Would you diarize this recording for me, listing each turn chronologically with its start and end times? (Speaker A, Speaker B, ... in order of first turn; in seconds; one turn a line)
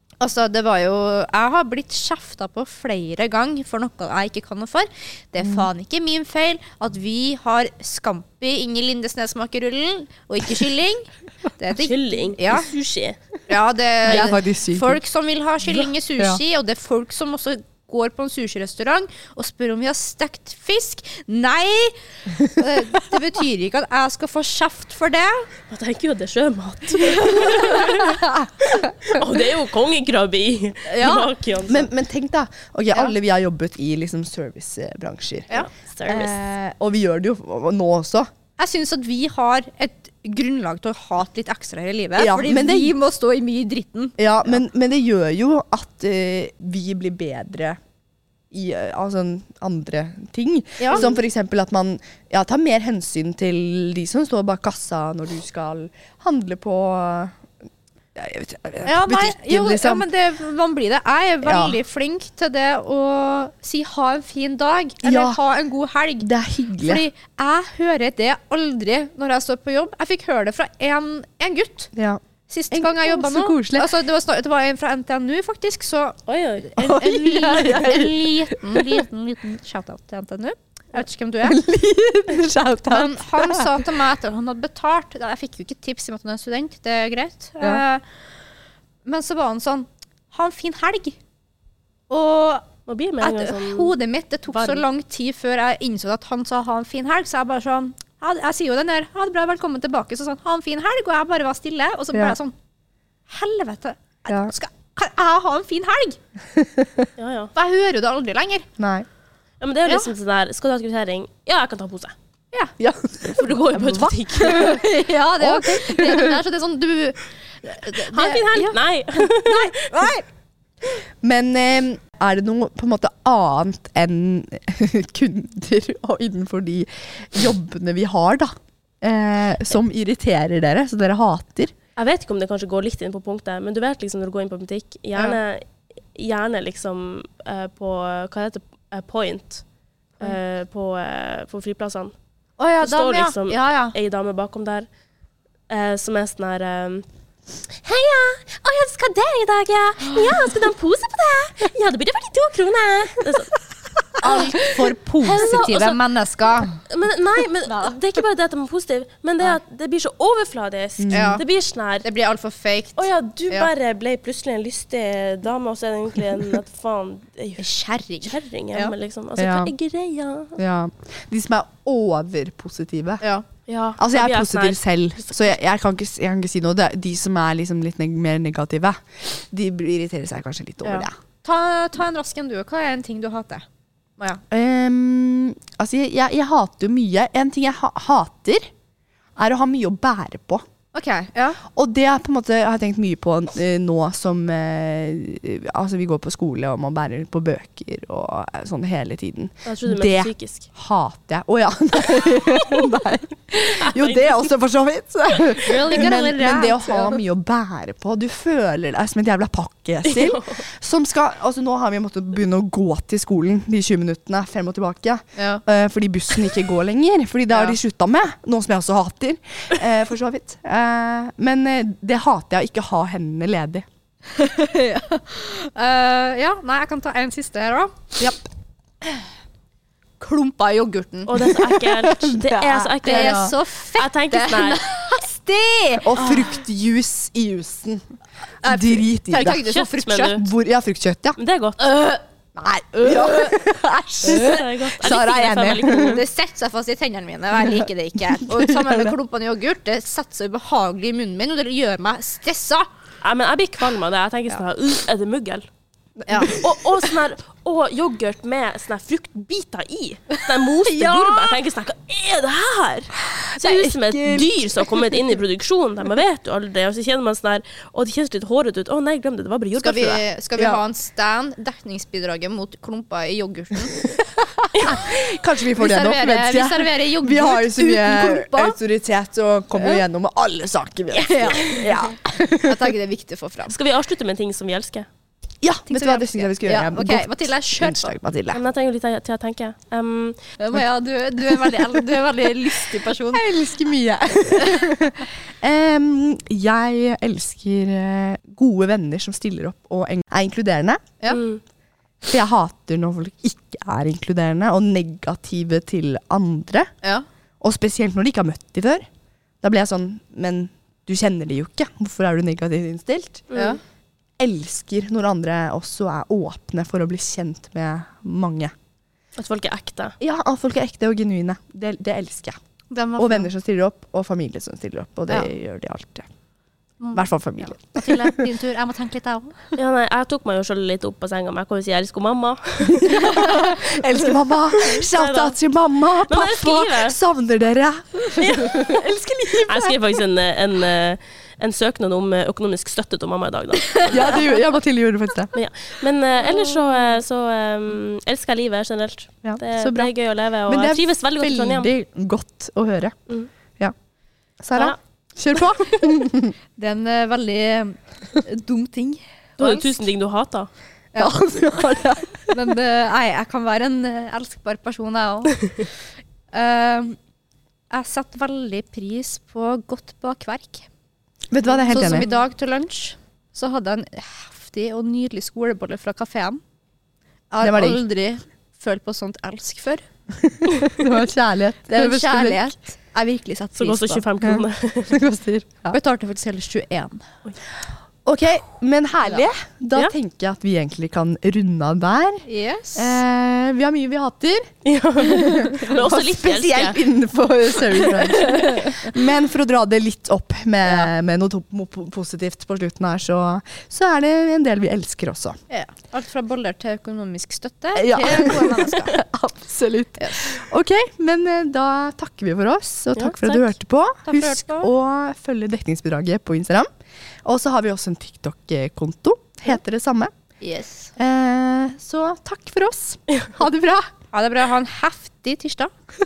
Speaker A: 0.2-12.7
Speaker B: 5.4-5.7
Speaker C: 11.8-13.2
Speaker A: 13.5-25.5
Speaker B: 14.1-15.0
Speaker C: 25.7-31.9
Speaker A: 27.2-28.9
Speaker A: 30.9-31.3
Speaker B: 31.7-38.3
Speaker C: 35.5-36.4
Speaker A: 38.6-44.6
Speaker B: 42.2-43.0
Speaker B: 44.2-47.8
Speaker B: 48.5-57.4
Speaker A: 50.8-51.0
Speaker B: 58.1-60.1
Speaker A: 58.8-66.3
Speaker B: 61.4-61.8
Speaker B: 65.0-65.4
Speaker B: 66.2-67.0
Speaker A: 66.8-71.9
Speaker B: 71.9-73.9
Speaker A: 72.5-81.6
Speaker C: 76.3-77.0
Speaker B: 76.8-79.0
Speaker B: 81.4-83.9
Speaker A: 82.9-88.0
Speaker A: 89.0-91.2
Speaker A: 92.1-92.7
Speaker C: 92.9-93.9
Speaker A: 93.2-102.5
Speaker C: 94.5-94.8
Speaker A: 103.3-106.2
Speaker B: 104.3-104.5
Speaker B: 106.6-107.1
Speaker C: 107.2-107.5
Speaker A: 107.5-108.7
Speaker B: 108.8-109.0
Speaker C: 109.6-112.1
Speaker B: 112.8-114.7
Speaker C: 113.3-114.8
Speaker A: 114.3-120.2
Speaker B: 115.4-116.4
Speaker C: 118.1-119.8
Speaker B: 121.2-131.7
Speaker C: 132.0-139.6
Speaker C: 140.2-142.1
Speaker A: 142.6-144.0
Speaker C: 142.8-144.9
Speaker C: 145.7-147.1
Speaker C: 147.7-153.6
Speaker C: 154.2-154.7
Speaker A: 154.2-156.7
Speaker C: 155.2-162.1
Speaker A: 157.7-158.0
Speaker B: 161.0-161.4
Speaker A: 161.1-161.4
Speaker A: 162.0-163.7
Speaker C: 163.0-167.6
Speaker A: 167.6-168.9
Speaker C: 168.2-170.6
Speaker B: 169.4-169.7
Speaker B: 170.6-173.2
Speaker C: 173.7-175.4
Speaker B: 174.0-181.1
Speaker A: 180.8-183.6
Speaker B: 184.5-188.7
Speaker B: 189.4-190.6
Speaker A: 190.9-191.6
Speaker B: 191.8-223.9
Speaker C: 199.6-200.7
Speaker C: 203.8-204.4
Speaker A: 205.6-207.2
Speaker C: 205.8-206.0
Speaker C: 210.1-210.6
Speaker A: 215.4-215.6
Speaker A: 224.3-228.1
Speaker A: 230.2-231.8
Speaker C: 231.3-234.8
Speaker B: 231.9-233.5
Speaker A: 232.9-236.4
Speaker B: 236.0-238.1
Speaker A: 238.6-240.4
Speaker B: 238.6-239.6
Speaker C: 239.7-240.5
Speaker B: 240.3-241.4
Speaker C: 241.4-241.9
Speaker A: 241.8-242.2
Speaker B: 242.6-246.2
Speaker A: 242.9-243.6
Speaker A: 244.2-244.6
Speaker C: 244.2-246.2
Speaker A: 245.8-252.9
Speaker B: 247.6-249.1
Speaker C: 253.2-255.7
Speaker B: 256.2-256.6
Speaker A: 256.3-256.5
Speaker C: 256.5-270.2
Speaker A: 260.8-261.6
Speaker B: 263.4-265.3
Speaker A: 269.8-274.1
Speaker B: 274.2-282.8
Speaker A: 275.8-278.8
Speaker A: 279.8-280.0
Speaker A: 281.1-283.7
Speaker C: 283.7-285.1
Speaker B: 285.6-288.6
Speaker A: 285.9-288.1
Speaker C: 288.5-290.4
Speaker A: 290.6-293.5
Speaker B: 291.5-292.1
Speaker B: 293.3-301.1
Speaker A: 294.6-294.9
Speaker C: 301.3-301.6
Speaker B: 302.2-306.9
Speaker B: 307.6-309.1
Speaker B: 309.6-313.5
Speaker C: 313.5-313.8
Speaker A: 313.6-313.8
Speaker B: 314.4-318.7
Speaker C: 319.4-320.1
Speaker B: 320.2-322.6
Speaker A: 322.9-323.5
Speaker B: 323.2-326.3
Speaker A: 327.0-329.7
Speaker B: 327.1-328.4
Speaker C: 329.8-335.6
Speaker B: 332.9-340.0
Speaker C: 336.3-337.2
Speaker C: 338.4-339.0
Speaker C: 339.7-344.5
Speaker B: 344.1-345.5
Speaker C: 345.5-351.9
Speaker B: 349.4-350.1
Speaker B: 350.7-353.2
Speaker B: 354.6-356.6
Speaker A: 356.8-360.1
Speaker C: 359.6-360.7
Speaker A: 361.1-361.4
Speaker B: 361.2-362.8
Speaker A: 362.5-365.9
Speaker A: 366.5-367.2
Speaker A: 367.9-370.9
Speaker B: 371.5-372.3
Speaker A: 371.9-376.6
Speaker A: 377.5-380.1
Speaker B: 377.6-378.0
Speaker B: 380.4-382.6
Speaker A: 381.9-384.2
Speaker C: 383.8-385.2
Speaker B: 384.4-386.0
Speaker A: 385.9-387.3
Speaker B: 388.2-394.7
Speaker A: 392.5-393.2
Speaker C: 394.9-397.0
Speaker B: 395.3-405.6
Speaker A: 398.4-399.0
Speaker A: 405.7-409.2
Speaker B: 407.9-416.9
Speaker A: 410.2-410.6
Speaker C: 413.2-413.7
Speaker A: 414.2-414.9
Speaker B: 417.4-420.3
Speaker A: 420.6-421.1
Speaker B: 421.2-424.1
Speaker A: 424.3-425.9